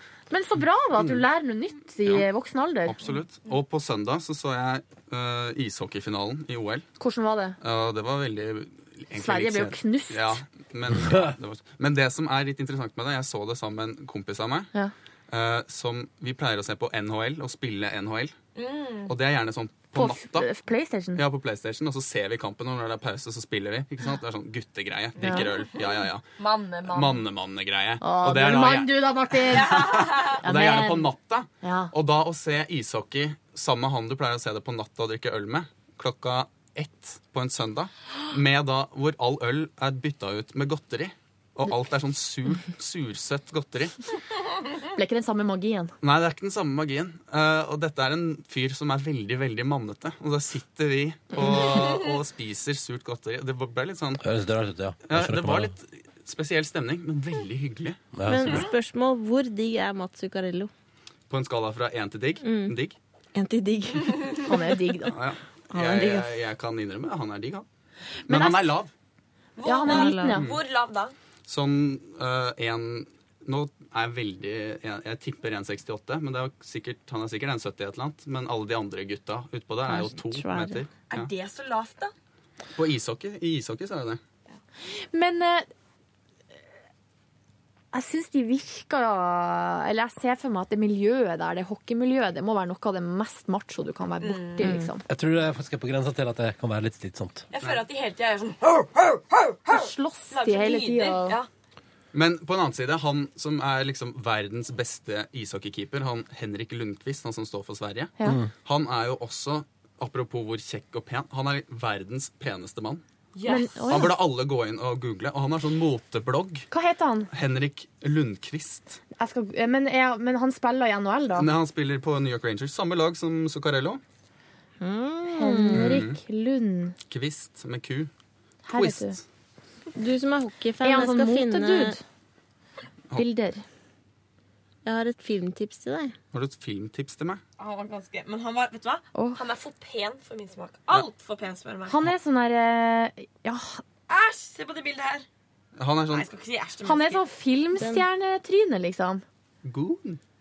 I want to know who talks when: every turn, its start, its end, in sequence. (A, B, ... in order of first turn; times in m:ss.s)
0:00.3-0:03.0 A
0:01.0-0:01.2 B
0:02.8-0:06.9 B
0:07.0-0:07.6 A
0:07.6-0:14.7 B
0:09.1-0:10.4 A
0:11.0-0:11.3 C
0:15.3-0:18.4 B
0:18.5-0:19.1 D
0:19.0-0:20.5 B
0:19.9-0:21.2 A
0:21.2-0:26.3 B
0:25.2-0:25.5 A
0:26.4-0:27.2 D
0:26.8-0:44.0 B
0:28.0-0:31.9 A
0:29.6-0:30.4 D
0:45.0-0:45.9 A
0:46.0-0:54.2 B
0:54.2-0:55.7 C
0:55.0-0:58.6 B
0:58.1-0:58.7 C
0:58.2-1:00.7 E
1:01.3-1:03.0 B
1:02.4-1:02.8 E
1:03.3-1:04.6 E
1:04.4-1:05.2 A
1:05.0-1:07.6 B
1:05.7-1:06.3 E
1:08.3-1:08.8 A
1:08.3-1:08.9 B
1:09.6-1:11.1 D
1:09.6-1:10.5 A
1:09.8-1:10.4 E
1:11.4-1:21.3 B
1:19.8-1:20.8 E
1:21.1-1:22.1 D
1:22.8-1:24.2 B
1:25.1-1:25.7 A
1:27.9-1:35.0 A
1:34.2-1:34.7 D
1:35.1-1:37.4 C
1:37.5-1:41.5 D
1:37.6-1:37.8 B
1:39.7-1:41.4 A
1:42.1-1:53.0 B
1:53.3-1:54.0 D
1:53.4-1:54.2 A
1:53.9-1:56.7 B
1:56.7-1:57.3 A
1:57.3-1:59.0 B
1:59.2-2:01.5 A
2:01.3-2:04.0 B
2:04.8-2:06.0 E
2:05.3-2:06.9 A
2:05.7-2:06.2 B
2:07.1-2:08.1 B
2:08.6-2:09.2 A
2:08.7-2:09.2 B
2:10.0-2:12.0 E
2:10.8-2:12.0 A
2:13.2-2:13.6 A
2:14.8-2:16.1 E
2:16.3-2:17.4 B
2:17.6-2:22.0 D
2:19.1-2:19.4 A
2:21.9-2:23.8 A
2:24.1-2:25.2 D
2:25.8-2:26.3 B
2:26.1-2:27.2 D
2:26.8-2:29.2 A
2:27.7-2:28.1 E
2:29.6-2:30.2 B